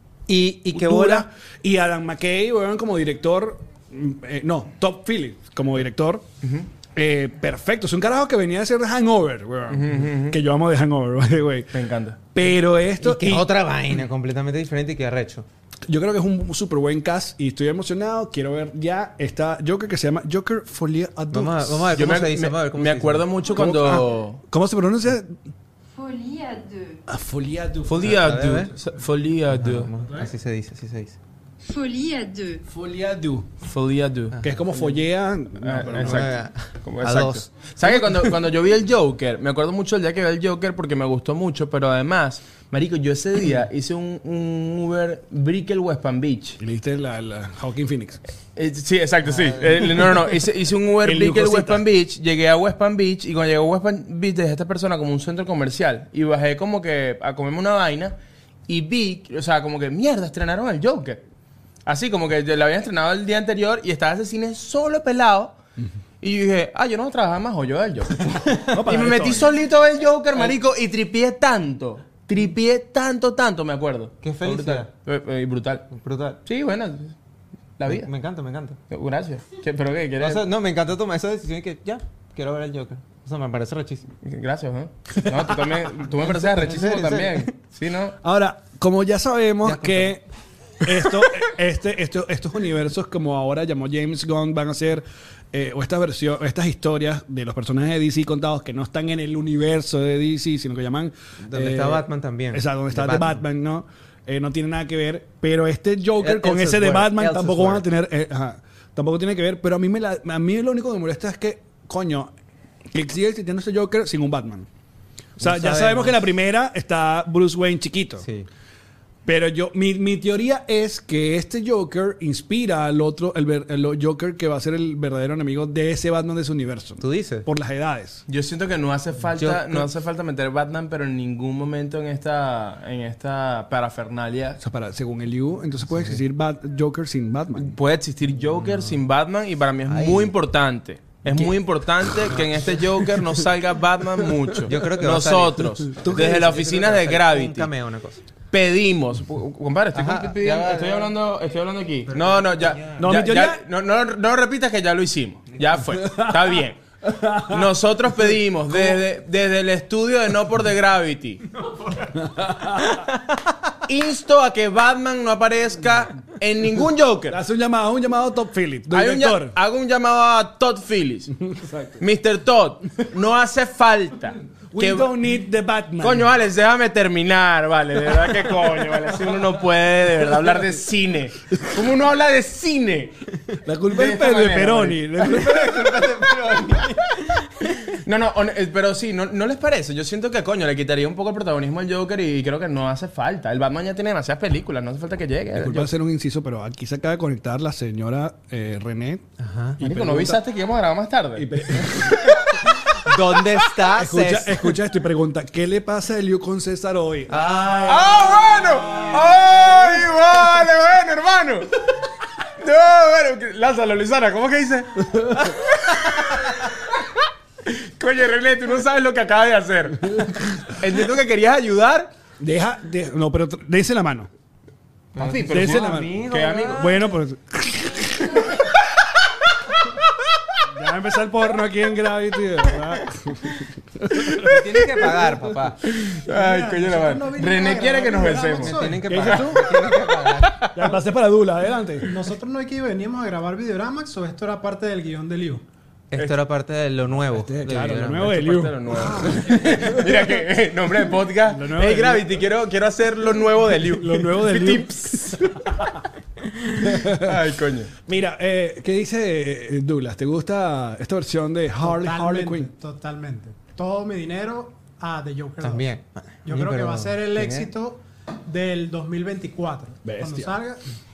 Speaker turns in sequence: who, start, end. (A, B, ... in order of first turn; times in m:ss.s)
0:00.3-0:01.2 A
0:00.7-0:06.2 B
0:06.4-0:06.7 C
0:06.9-0:11.7 B
0:09.7-0:10.4 C
0:11.7-0:12.2 C
0:12.3-0:13.5 B
0:13.0-0:15.4 A
0:15.9-0:22.0 B
0:21.3-0:23.3 A
0:21.9-0:24.4 C
0:23.6-0:25.4 B
0:25.9-0:27.0 D
0:27.1-0:28.2 B
0:27.8-0:29.9 C
0:28.0-0:28.7 A
0:29.5-0:31.2 A
0:31.6-0:32.6 D
0:32.7-0:33.5 B
0:33.6-0:34.4 C
0:34.3-0:34.9 A
0:34.4-0:36.3 B
0:35.6-0:46.6 C
0:36.0-0:38.3 A
0:46.6-0:48.2 B
0:48.5-0:58.2 C
0:49.3-0:49.9 A
0:51.0-0:51.8 B
0:58.7-1:01.2 C
1:01.8-1:05.6 C
1:06.2-1:15.9 C
1:08.7-1:09.5 B
1:14.2-1:14.9 A
1:15.9-1:16.4 A
1:16.4-1:17.1 C
1:17.8-1:18.1 C
1:17.9-1:18.8 A
1:18.9-1:20.4 C
1:20.2-1:24.1 A
1:24.2-1:28.2 C
1:26.3-1:27.5 A
1:28.2-1:30.2 B
1:29.6-1:30.2 A
1:30.8-1:52.3 B
1:30.9-1:31.4 A
1:41.5-1:43.4 A
1:46.2-1:47.9 A
1:52.9-1:54.7 B
1:55.4-1:58.2 B
1:55.4-1:56.2 A
1:58.2-1:58.5 A
1:59.2-2:08.2 B
2:07.0-2:07.5 A
2:08.3-2:14.6 C
2:09.3-2:09.9 A
2:14.6-2:17.7 B
2:15.9-2:16.2 A
2:17.6-2:27.7 C
2:18.6-2:19.0 A
2:19.9-2:20.3 A
2:22.3-2:22.7 A
2:24.6-2:28.2 A
2:26.0-2:26.3 B
2:28.5-2:36.8 C
2:29.9-2:31.1 A
2:32.1-2:33.1 A
2:33.0-2:33.6 B
2:36.0-2:36.4 B
2:37.0-2:37.7 B
2:37.3-2:41.4 C
2:38.7-2:39.0 B
2:42.2-2:43.0 B
2:43.8-2:47.4 C
2:47.3-2:49.5 B
2:48.9-2:51.3 C
2:51.5-2:52.0 B
2:52.0-2:55.1 C
2:54.7-2:56.3 B
2:56.0-3:03.1 C
3:03.6-3:05.8 B
3:03.9-3:05.4 C
3:05.2-3:07.7 A
3:07.9-3:15.9 C
3:15.5-3:19.2 B
3:19.4-3:19.8 A
3:19.8-3:20.4 B
3:19.8-3:23.0 C
3:21.4-3:22.4 B
3:23.0-3:24.7 A
3:23.8-3:28.1 B
3:27.3-3:28.3 A
3:27.8-3:31.7 C
3:28.9-3:29.2 B
3:32.6-3:37.1 C
3:37.6-3:42.1 C
3:42.4-3:44.3 B
3:45.1-3:47.1 A
3:45.2-3:46.9 C
3:45.5-3:46.1 B
3:46.7-3:48.5 B
3:50.7-3:55.4 B
3:54.3-3:55.8 A
3:55.8-3:59.9 C
3:56.3-3:59.1 E
3:58.5-4:01.0 A
3:59.0-3:59.7 B
4:00.7-4:02.1 B
4:02.0-4:05.6 E
4:06.1-4:08.4 A
4:07.2-4:10.1 B
4:08.2-4:15.8 C
4:11.5-4:12.3 B
4:13.9-4:14.9 B
4:16.8-4:17.9 C
4:16.8-4:17.4 B
4:18.0-4:22.7 B
4:21.8-4:25.9 E
4:25.6-4:27.7 A
4:26.4-4:30.8 E
4:30.0-4:30.5 B